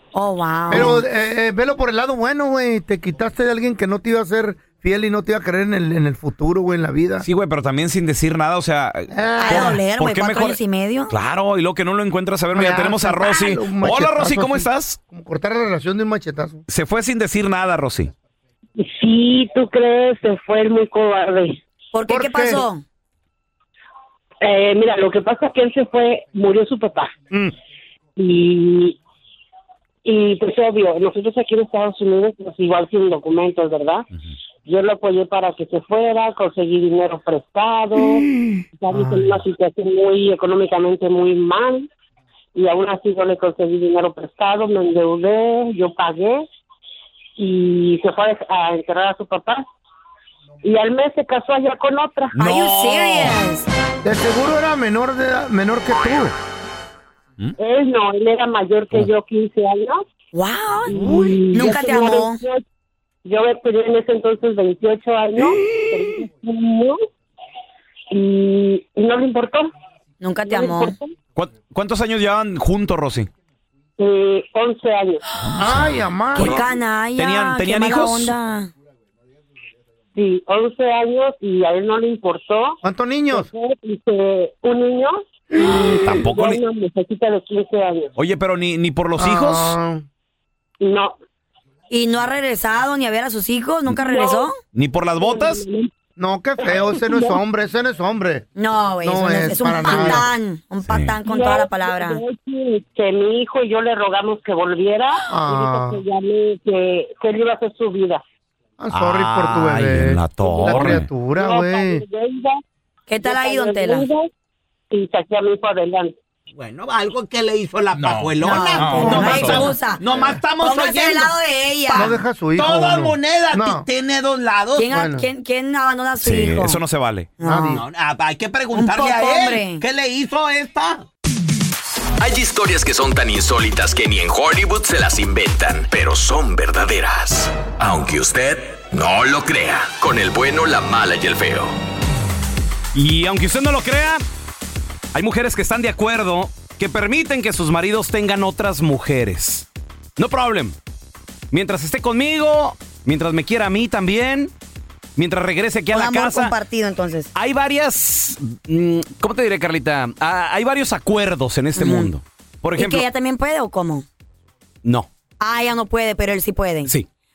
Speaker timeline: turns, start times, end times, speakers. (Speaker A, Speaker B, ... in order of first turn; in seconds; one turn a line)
Speaker A: 0.1-1.0
Speaker B: 0.7-7.3
Speaker C: 7.2-10.6
Speaker B: 9.1-9.8
Speaker A: 9.4-11.1
Speaker C: 11.1-15.0
Speaker B: 12.5-16.6
Speaker C: 16.7-18.1
Speaker D: 18.8-21.6
Speaker A: 21.9-22.8
Speaker B: 22.1-22.6
Speaker D: 24.4-27.1
Speaker D: 28.2-29.0
Speaker D: 30.1-34.1
Speaker D: 34.7-38.3
Speaker B: 38.2-38.5
Speaker D: 38.8-41.9
Speaker D: 42.5-46.5
Speaker D: 47.4-49.7
Speaker D: 50.6-52.4
Speaker C: 52.4-53.4
Speaker A: 52.4-53.7
Speaker B: 54.0-56.4
Speaker D: 57.6-60.0
Speaker A: 60.3-61.0
Speaker D: 60.9-62.6
Speaker B: 60.9-61.4
Speaker A: 61.5-62.4
Speaker D: 63.2-67.0
Speaker D: 68.1-69.7
Speaker A: 70.2-71.0
Speaker D: 70.5-71.1
Speaker C: 71.4-73.3
Speaker D: 74.0-75.2
Speaker B: 75.6-76.6
Speaker A: 76.3-78.7
Speaker C: 76.4-76.6
Speaker C: 77.2-78.3
Speaker D: 80.2-82.8
Speaker B: 82.8-83.5
Speaker D: 83.3-88.1
Speaker C: 86.0-86.6
Speaker C: 88.2-89.8
Speaker B: 89.2-90.0
Speaker D: 90.8-91.2
Speaker A: 91.9-94.5
Speaker D: 93.9-94.5
Speaker C: 94.7-95.7
Speaker D: 95.2-95.9
Speaker B: 96.2-98.5
Speaker D: 96.6-97.4
Speaker A: 98.6-102.2
Speaker B: 99.0-100.3
Speaker D: 101.2-108.2
Speaker B: 105.3-106.0
Speaker B: 108.8-112.0
Speaker C: 108.9-111.1
Speaker D: 110.4-112.6
Speaker A: 113.1-114.1
Speaker D: 113.2-114.3
Speaker D: 114.9-116.1
Speaker E: 116.5-122.0
Speaker C: 118.0-118.3
Speaker A: 118.4-120.0
Speaker B: 118.8-120.2
Speaker C: 118.9-119.7
Speaker A: 120.6-122.2
Speaker B: 121.9-123.9
Speaker E: 122.6-124.9
Speaker A: 124.8-126.8
Speaker B: 124.9-125.2
Speaker C: 126.2-127.3
Speaker A: 127.4-127.8
Speaker B: 127.4-127.8
Speaker E: 127.7-131.0
Speaker A: 128.7-129.8
Speaker F: 132.2-141.8
Speaker C: 142.9-144.2
Speaker C: 145.1-149.7
Speaker C: 150.2-150.8
Speaker C: 151.5-154.5
Speaker C: 155.2-156.5
Speaker A: 155.9-157.3
Speaker C: 157.3-163.1
Speaker A: 161.8-162.1
Speaker A: 162.8-164.1
Speaker A: 165.4-166.9